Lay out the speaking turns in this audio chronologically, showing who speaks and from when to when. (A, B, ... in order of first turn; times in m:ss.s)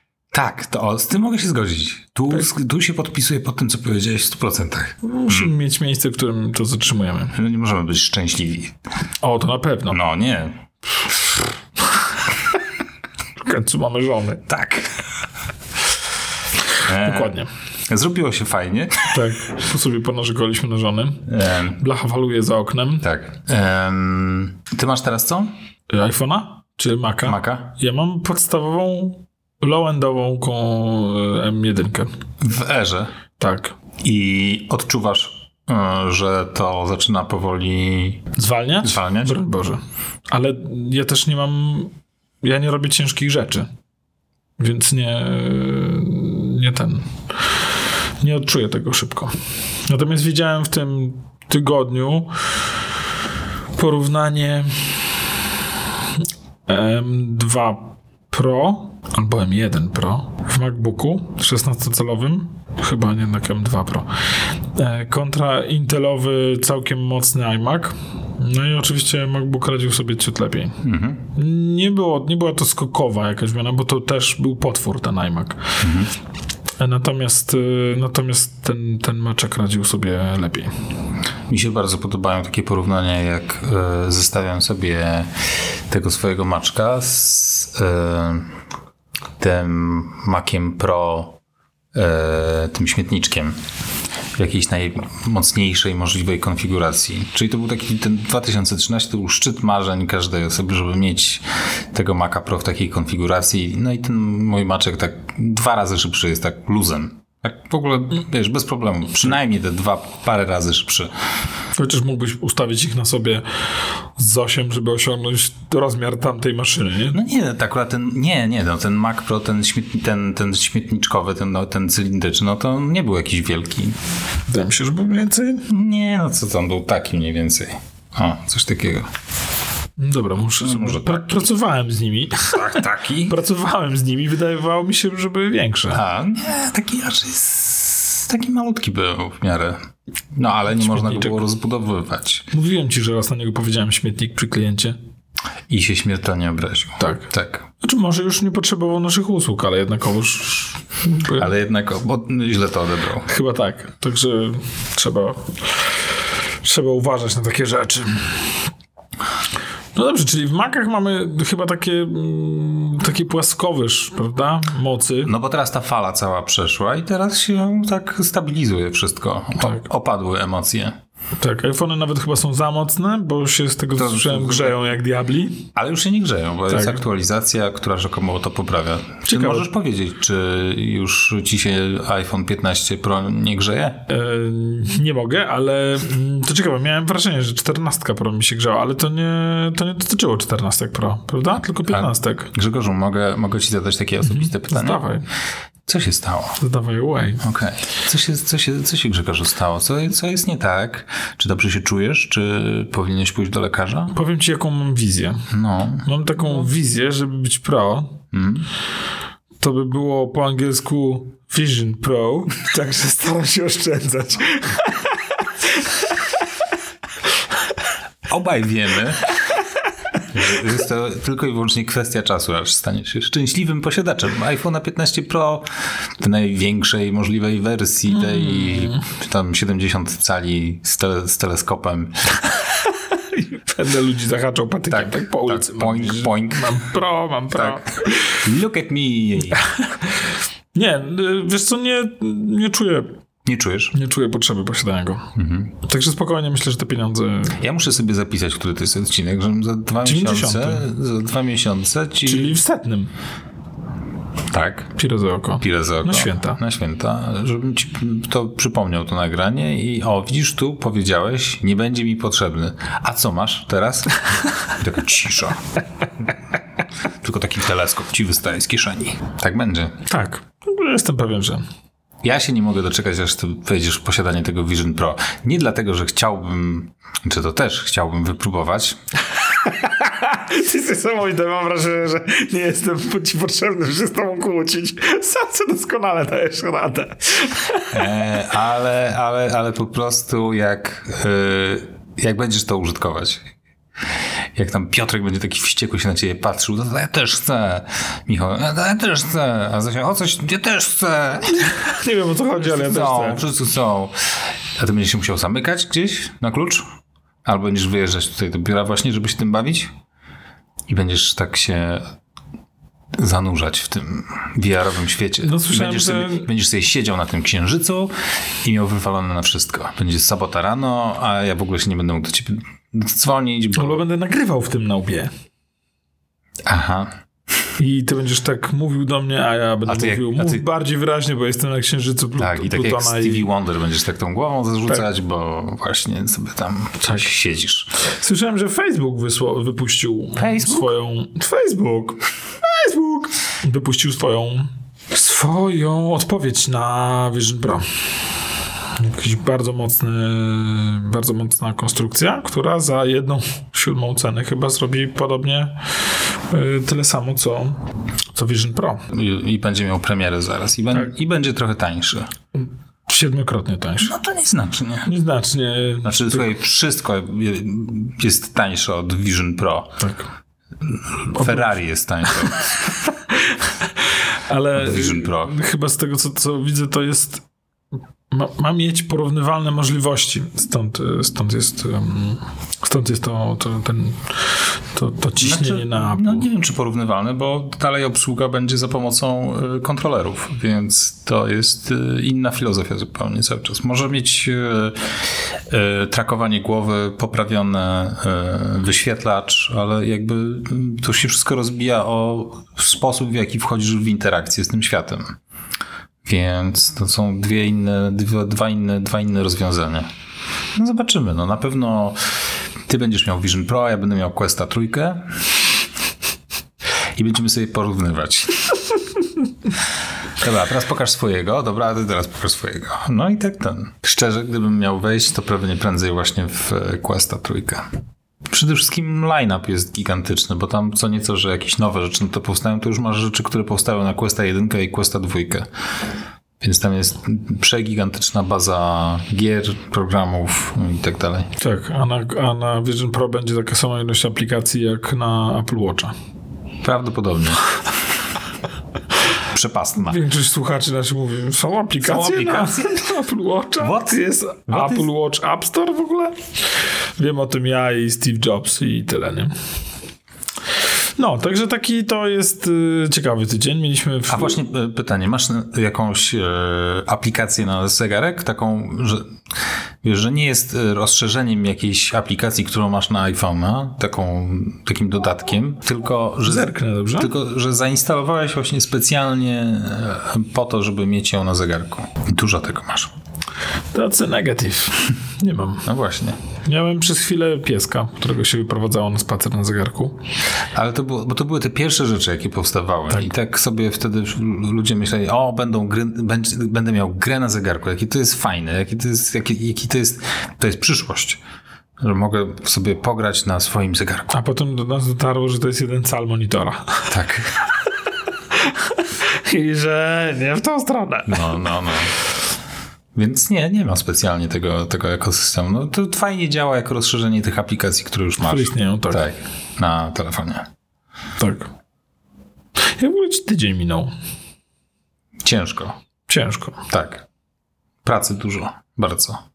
0:00.3-0:05.5 A
0:05.0-0:07.4 B
0:07.3-0:08.8 A
0:09.2-0:10.0 B
0:09.9-0:10.6 A
0:13.4-0:14.5 B
0:14.5-0:15.0 A
0:16.8-0:19.2 A
0:16.8-0:17.5 B
0:19.1-0:23.0 B
0:21.3-0:21.8 A
0:23.0-0:25.5 A
0:25.9-0:32.1 B
0:27.2-0:27.7 A
0:32.4-0:33.1 A
0:33.4-0:33.7 B
0:34.0-0:38.3 A
0:38.4-0:43.7 B
0:38.8-0:39.4 A
0:44.6-0:47.2 B
0:48.2-0:49.3 B
0:49.9-0:52.3 B
0:53.8-0:55.5 B
0:56.2-1:15.9 B
1:10.8-1:11.3 A
1:15.8-1:16.1 A
1:16.8-1:20.7 B
1:21.5-1:25.4 A
1:25.9-1:28.5 A
1:29.4-1:31.4 A
1:31.9-1:33.6 A
1:34.4-1:51.1 A
1:51.7-1:53.4 B
1:54.0-1:57.2 B
1:57.1-2:04.0 A
2:04.5-2:05.7 B
2:05.7-2:09.1 A
2:10.0-2:16.0 B
2:10.6-2:11.4 A
2:12.5-2:13.4 A
2:15.9-2:19.8 A
2:20.3-2:22.5 A
2:20.7-2:21.4 B
2:22.5-2:25.0 B
2:25.7-2:27.7 A
2:27.0-2:27.3 B
2:27.8-2:31.5 B
2:31.3-2:33.3 A
2:33.2-2:35.9 B
2:36.6-2:38.5 B
2:39.9-2:45.3 B
2:45.2-2:51.0 A
2:51.4-2:55.7 B
2:54.0-2:54.9 A
2:55.7-3:04.0 A
2:56.7-2:57.0 B
2:59.2-2:59.7 B
3:04.1-3:12.5 B
3:11.9-3:15.0 A
3:14.2-3:15.2 B
3:15.9-3:16.6 A
3:16.6-3:17.4 B
3:17.4-3:24.1 A
3:24.1-3:25.5 B
3:25.5-3:26.0 A
3:26.0-3:28.2 B
3:28.3-3:28.7 A
3:29.6-3:36.2 B
3:38.3-3:39.3 A
3:40.3-3:52.5 A
3:48.3-3:49.0 B
3:52.9-3:58.4 B
3:54.9-3:56.8 A
3:57.5-3:59.6 A
3:59.6-4:00.1 B
4:00.7-4:03.2 B
4:03.4-4:03.9 A
4:03.9-4:07.6 B
4:05.3-4:05.7 A
4:07.6-4:12.6 A
4:10.0-4:10.9 B
4:12.2-4:13.1 B
4:14.5-4:14.9 A
4:15.0-4:16.6 B
4:15.6-4:25.6 A
4:27.2-4:30.0 A
4:30.0-4:31.6 B
4:32.2-4:39.0 A
4:39.6-4:48.0 B
4:47.9-4:53.5 A
4:54.5-5:01.7 A
5:01.6-5:03.4 B
5:02.6-5:04.1 A
5:04.8-5:06.8 A
5:07.4-5:09.9 A
5:10.9-5:12.1 A
5:13.2-5:18.1 A
5:15.4-5:16.5 B
5:18.6-5:24.0 A
5:23.7-5:25.3 B
5:26.6-5:27.1 A
5:27.8-5:33.5 B
5:29.8-5:30.6 A
5:32.4-5:37.9 A
5:38.0-5:48.1 B
5:40.4-5:40.9 A
5:48.9-5:57.8 B
5:58.3-5:59.0 B
5:59.1-6:02.3 A
6:02.6-6:04.1 B
6:04.0-6:05.1 A
6:05.0-6:06.4 B
6:06.0-6:10.0 A
6:10.0-6:10.3 B
6:10.8-6:12.8 A
6:11.3-6:11.6 B
6:13.3-6:17.4 B
6:14.7-6:15.5 A
6:18.3-6:26.5 B
6:25.4-6:45.4 A
6:46.2-6:50.1 A
6:50.8-6:55.4 A
6:57.2-6:58.8 A
7:00.4-7:07.9 A
7:08.5-7:15.7 A
7:16.6-7:21.5 A
7:21.6-7:26.1 B
7:26.8-7:27.7 A
7:29.4-7:30.2 A
7:30.0-7:39.5 B
7:32.0-7:33.1 A
7:33.8-7:35.1 A
7:41.2-7:44.6 B
7:44.3-7:49.4 A
7:50.0-8:03.1 A
7:56.4-7:57.3 B
8:03.9-8:05.9 B
8:05.8-8:06.4 A
8:06.6-8:10.2 B
8:10.7-8:21.4 A
8:22.0-8:24.3 A
8:24.3-8:27.1 B
8:27.1-8:27.6 A
8:28.5-8:31.5 B
8:31.3-8:32.1 A
8:33.1-8:40.7 A
8:38.4-8:39.2 B
8:41.4-8:41.7 B
8:43.0-8:44.1 B
8:45.4-8:46.0 A
8:46.3-8:46.8 B
8:46.9-8:47.2 A
8:48.0-8:49.4 A